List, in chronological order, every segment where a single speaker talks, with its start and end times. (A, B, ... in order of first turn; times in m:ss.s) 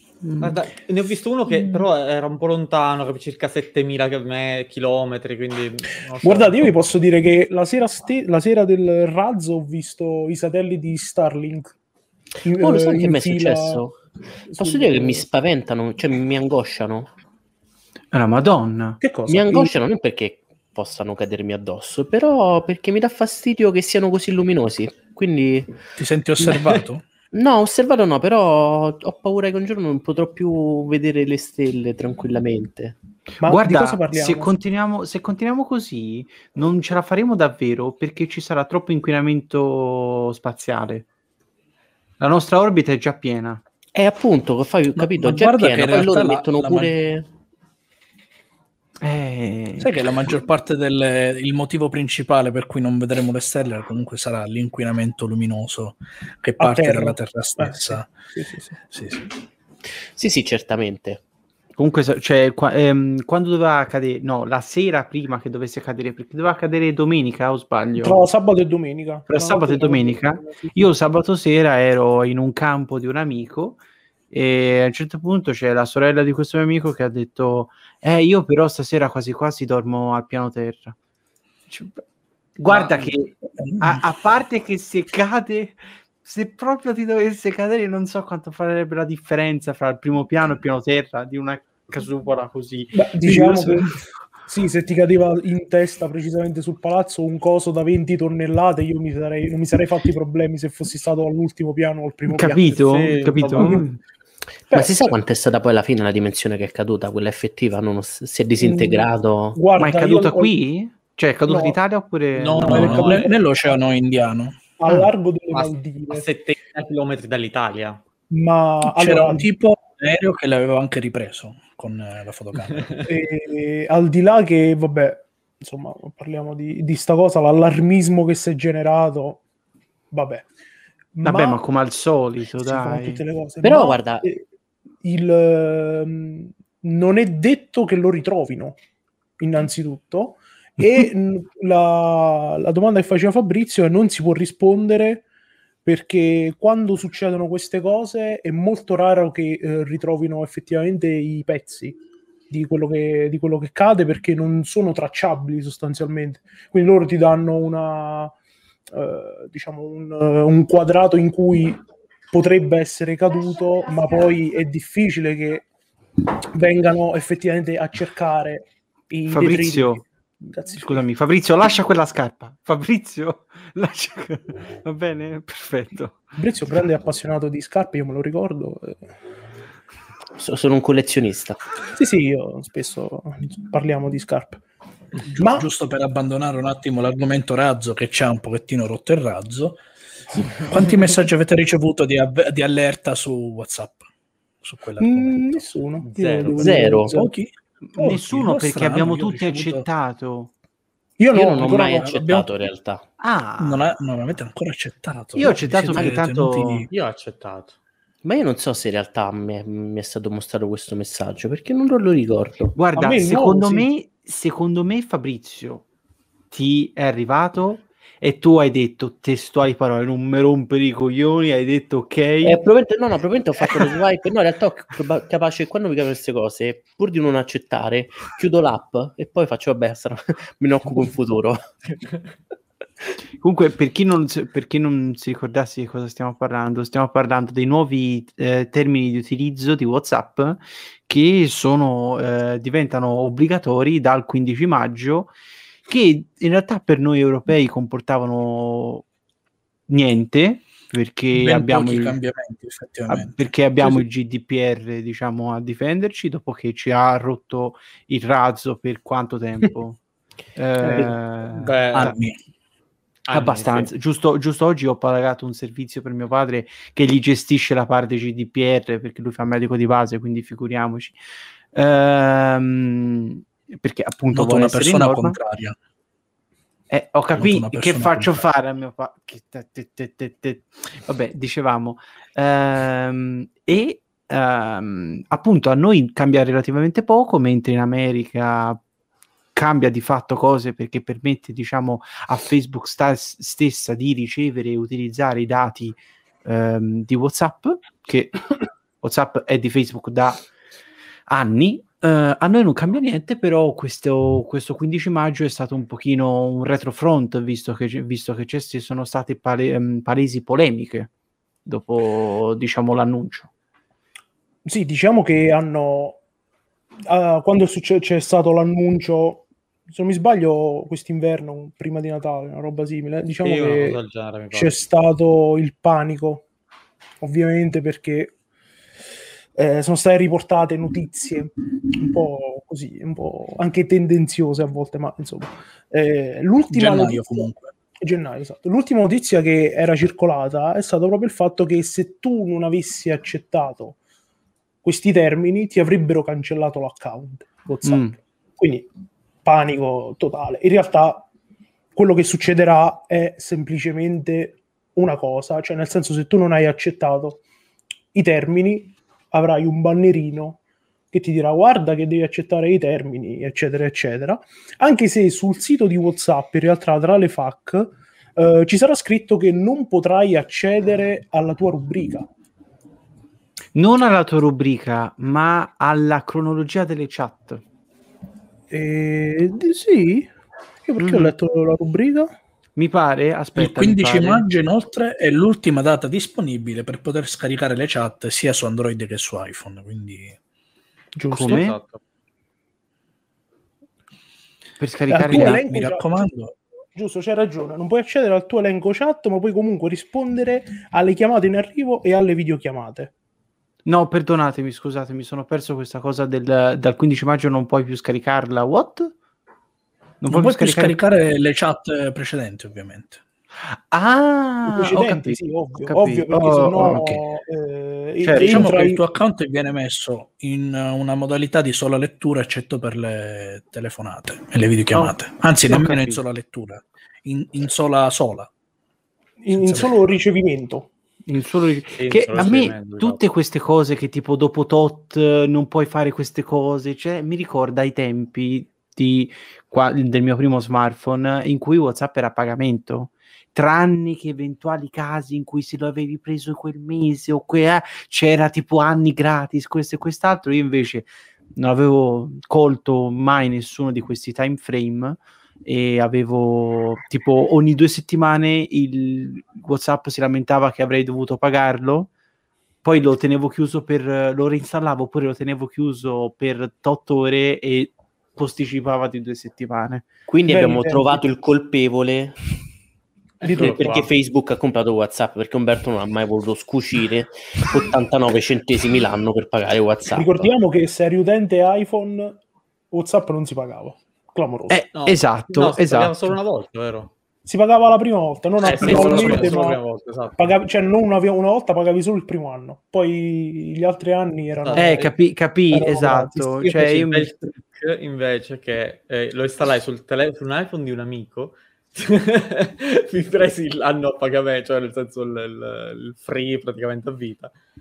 0:00.2-0:00.6 A
0:00.4-0:06.7 B
0:06.2-0:11.8 C
0:12.4-0:13.8 C
0:12.6-0:13.9 D
0:14.5-0:15.2 C
0:14.6-0:17.1 D
0:18.1-0:19.0 A
0:19.0-0:19.7 C
0:19.3-0:25.8 D
0:26.0-0:27.0 E
0:27.3-0:33.0 D
0:33.4-0:34.5 C
0:33.4-0:41.1 A
0:42.2-0:43.6 A
0:44.0-0:47.3 D
0:45.0-0:46.9 E
0:49.0-0:50.1 A
0:49.8-0:58.1 E
0:56.6-0:58.8 C
0:58.9-0:59.2 E
1:00.2-1:01.2 D
1:01.8-1:08.2 A
1:08.0-1:10.9 C
1:09.3-1:21.0 A
1:21.7-1:22.0 A
1:22.6-1:33.8 A
1:22.7-1:23.1 B
1:23.6-1:24.0 E
1:32.9-1:42.9 C
1:42.3-1:44.0 A
1:42.8-1:43.8 B
1:43.5-1:43.8 C
1:44.7-1:49.6 D
1:48.6-1:50.5 C
1:49.8-1:53.2 A
1:51.5-1:51.8 C
1:52.3-1:53.3 B
1:52.5-1:54.7 E
1:52.7-1:53.3 C
1:54.8-1:56.3 C
1:55.5-1:58.0 B
1:58.3-1:59.5 C
1:58.8-2:03.0 E
2:03.0-2:09.4 C
2:10.1-2:10.5 C
2:11.2-2:11.6 C
2:11.2-2:13.2 A
2:12.6-2:14.4 C
2:13.6-2:14.3 D
2:15.0-2:18.8 C
2:19.4-2:25.3 C
2:25.8-2:32.0 C
2:32.5-2:38.3 C
2:38.9-2:45.7 C
2:46.5-2:51.0 C
2:49.3-2:56.2 A
2:56.4-2:59.0 C
3:00.4-3:01.6 D
3:01.9-3:04.6 C
3:05.2-3:09.8 E
3:05.4-3:05.7 C
3:10.3-3:14.0 E
3:14.6-3:15.7 E
3:15.0-3:17.3 C
3:16.1-3:16.8 B
3:16.6-3:17.2 D
3:16.6-3:19.8 E
3:17.8-3:20.5 A
3:21.2-3:22.2 C
3:21.3-3:23.0 D
3:21.7-3:22.6 E
3:23.2-3:23.9 A
3:23.6-3:26.9 E
3:25.4-3:26.9 A
3:26.9-3:27.8 B
3:28.2-3:32.8 D
3:32.8-3:35.8 A
3:33.0-3:33.9 C
3:36.5-3:42.6 A
3:42.4-3:51.6 D
3:53.4-4:05.3 A
4:05.9-4:09.1 A
4:09.9-4:12.2 A
4:11.3-4:13.4 E
4:13.1-4:20.0 A
4:20.6-4:22.1 A
4:21.0-4:22.1 B
4:22.0-4:22.4 E
4:23.3-4:23.9 B
4:23.3-4:31.2 A
4:31.7-4:35.4 A
4:34.3-4:35.8 E
4:36.9-4:48.8 A
4:37.4-4:38.4 E
4:49.5-4:58.4 A
4:59.0-5:00.4 A
5:01.3-5:11.1 A
5:11.6-5:13.5 A
5:14.6-5:16.2 C
5:17.1-5:24.0 C
5:23.4-5:24.8 B
5:24.5-5:26.5 C
5:27.2-5:28.4 C
5:29.5-5:44.0 C
5:36.7-5:37.7 E
5:44.8-5:48.9 C
5:47.8-5:48.1 A
5:49.4-5:51.3 C
5:52.0-5:57.4 C
5:58.1-6:00.6 C
6:01.1-6:12.3 C
6:13.8-6:17.6 A
6:18.7-6:20.3 C
6:20.9-6:22.4 C
6:21.0-6:21.3 A
6:22.8-6:24.4 A
6:23.6-6:30.4 E
6:31.2-6:31.7 C
6:31.3-6:31.8 A
6:31.4-6:32.0 B
6:34.8-6:35.6 A
6:35.1-6:36.2 C
6:35.2-6:36.6 E
6:37.0-6:43.1 C
6:43.9-6:49.1 A
6:50.2-6:51.0 A
6:50.3-6:53.2 E
6:53.6-6:57.2 A
6:54.7-6:59.0 C
6:58.2-6:58.7 A
6:58.4-7:08.5 E
7:05.7-7:06.2 A
7:09.4-7:10.9 C
7:09.6-7:10.0 E
7:11.2-7:42.1 A
7:12.0-7:13.2 B
7:42.8-7:50.1 A
7:50.3-7:52.4 D
7:50.5-7:51.2 C
7:53.4-7:54.1 B
7:53.4-7:54.1 C
7:53.6-8:00.5 D
8:00.1-8:02.4 C
8:02.9-8:04.8 C
8:04.7-8:06.4 A
8:05.0-8:07.1 B
8:07.4-8:09.8 C
8:08.6-8:10.5 B
8:08.8-8:09.6 A
8:10.4-8:15.0 C
8:14.6-8:15.1 B
8:14.7-8:17.4 A
8:15.7-8:16.6 C
8:16.6-8:27.5 B